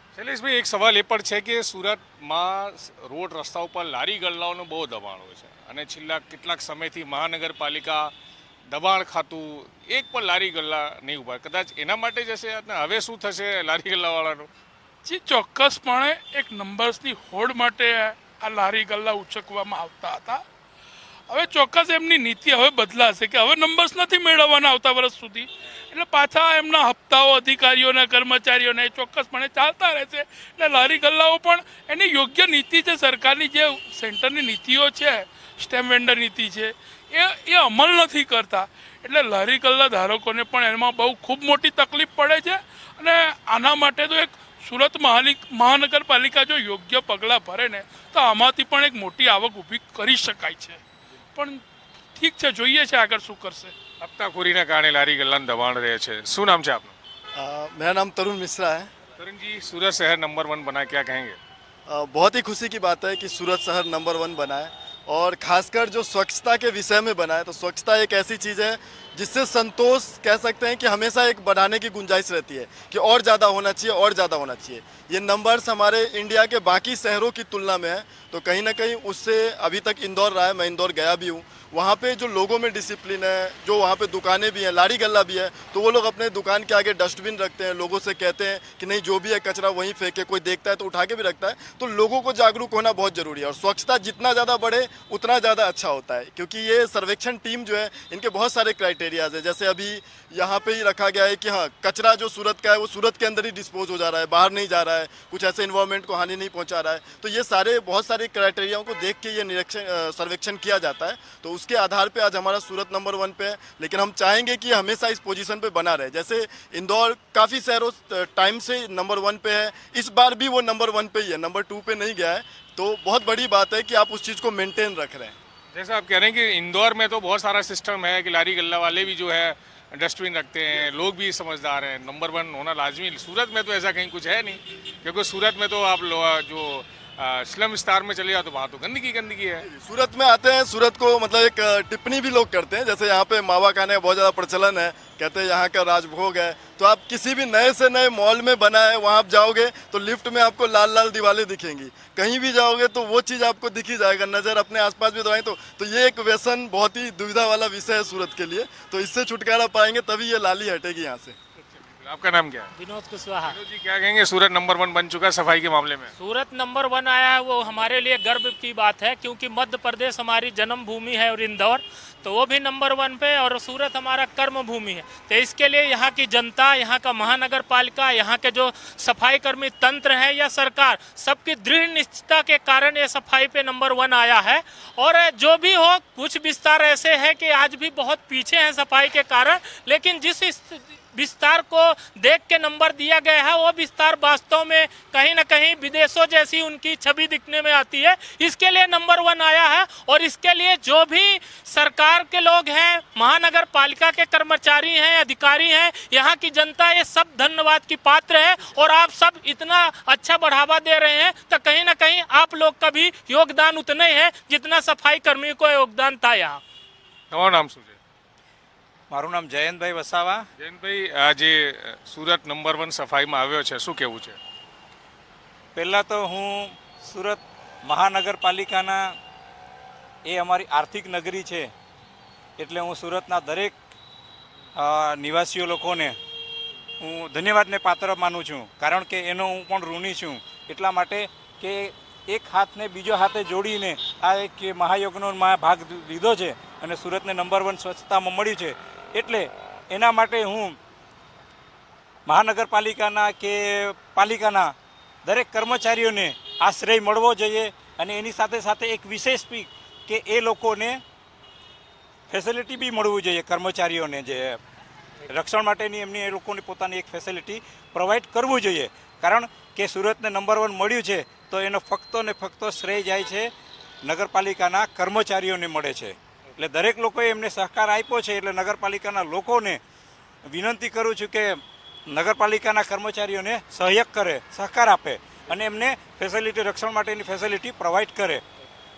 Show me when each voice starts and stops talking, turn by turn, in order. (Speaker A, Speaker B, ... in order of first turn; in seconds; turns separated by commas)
Speaker A: 0.1-8.1, Speaker A: 8.7-14.5, Speaker B: 15.0-20.4, Speaker B: 21.3-50.8, Speaker B: 51.4-51.6, Speaker B: 52.2-53.8, Speaker A: 54.0-57.0, Speaker C: 57.4-58.9, Speaker A: 59.2-61.4, Speaker C: 61.9-125.3, Speaker A: 125.7-139.7, Speaker C: 139.6-161.4, Speaker A: 161.8-162.7, Speaker D: 162.8-163.6, Speaker A: 163.4-166.1, Speaker D: 166.2-216.6, Speaker A: 217.3-218.0, Speaker E: 219.1-220.5, Speaker A: 220.6-224.4, Speaker E: 225.8-229.2, Speaker E: 230.2-231.7, Speaker E: 232.6-233.8, Speaker E: 234.8-236.2, Speaker E: 237.0-250.8, Speaker E: 252.3-254.7, Speaker E: 255.2-261.0, Speaker E: 262.3-264.6, Speaker E: 265.3-273.5, Speaker E: 274.0-279.8, Speaker E: 280.5-288.4